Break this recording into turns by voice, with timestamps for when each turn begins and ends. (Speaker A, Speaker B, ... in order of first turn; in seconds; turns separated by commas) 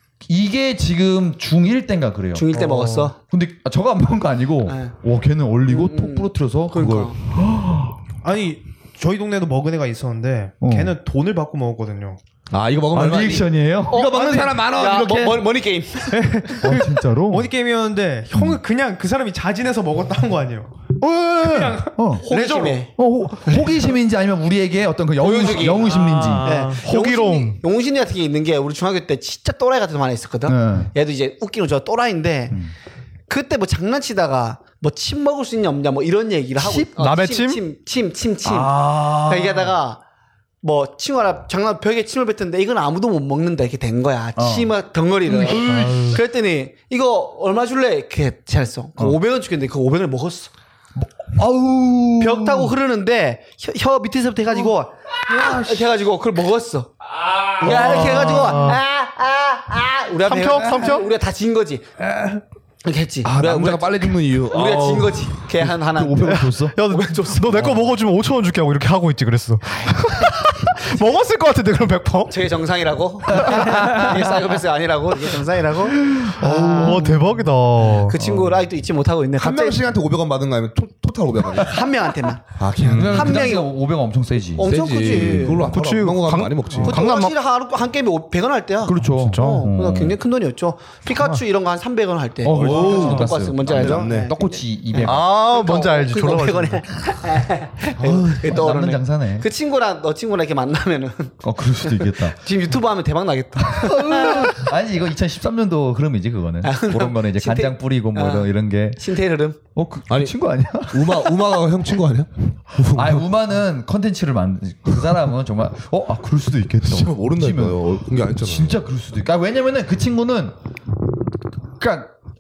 Speaker A: 0.2-8.0, Speaker B: 2.3-3.1, Speaker B: 4.7-4.9, Speaker B: 5.7-7.1, Speaker C: 8.2-12.2, Speaker A: 10.6-10.9, Speaker D: 12.5-15.5, Speaker A: 12.9-14.5, Speaker B: 13.9-16.6, Speaker C: 16.1-22.8, Speaker A: 16.6-17.5, Speaker A: 18.3-18.6, Speaker A: 21.4-22.2, Speaker B: 22.2-22.9, Speaker A: 22.9-26.5, Speaker C: 23.5-23.8, Speaker B: 25.2-32.6, Speaker C: 25.5-26.8, Speaker E: 26.8-27.6, Speaker A: 30.5-30.9, Speaker B: 33.3-40.0, Speaker A: 36.6-36.9, Speaker E: 37.0-37.6, Speaker A: 38.4-39.7, Speaker B: 40.6-50.5, Speaker A: 44.4-44.7, Speaker A: 45.2-46.2, Speaker E: 45.6-46.2, Speaker A: 51.0-52.7, Speaker B: 52.2-56.9, Speaker A: 55.3-55.8, Speaker B: 57.5-61.9, Speaker A: 57.6-58.7, Speaker E: 57.6-58.8, Speaker E: 60.2-61.1, Speaker D: 62.0-62.4, Speaker B: 62.8-67.8, Speaker D: 63.2-65.2, Speaker A: 64.7-66.8, Speaker E: 66.2-72.4, Speaker A: 67.5-67.8, Speaker B: 72.3-77.4, Speaker A: 73.3-74.4, Speaker E: 76.0-78.2, Speaker B: 77.9-79.8, Speaker A: 78.2-78.6, Speaker D: 79.4-81.8, Speaker B: 81.6-83.7, Speaker D: 82.5-83.5, Speaker A: 82.9-84.7, Speaker B: 84.5-85.7, Speaker D: 84.6-87.3, Speaker E: 85.6-87.3, Speaker B: 86.8-104.7, Speaker A: 88.8-90.2, Speaker E: 89.0-89.7, Speaker D: 91.1-91.4, Speaker A: 92.4-95.2, Speaker D: 92.5-94.3, Speaker E: 95.0-96.8, Speaker A: 98.0-99.5, Speaker A: 101.4-102.4, Speaker A: 103.6-109.0, Speaker B: 106.6-109.6, Speaker A: 109.7-111.6, Speaker D: 110.1-110.3, Speaker D: 110.9-113.2, Speaker A: 112.9-120.5, Speaker D: 116.8-118.8, Speaker A: 121.8-122.1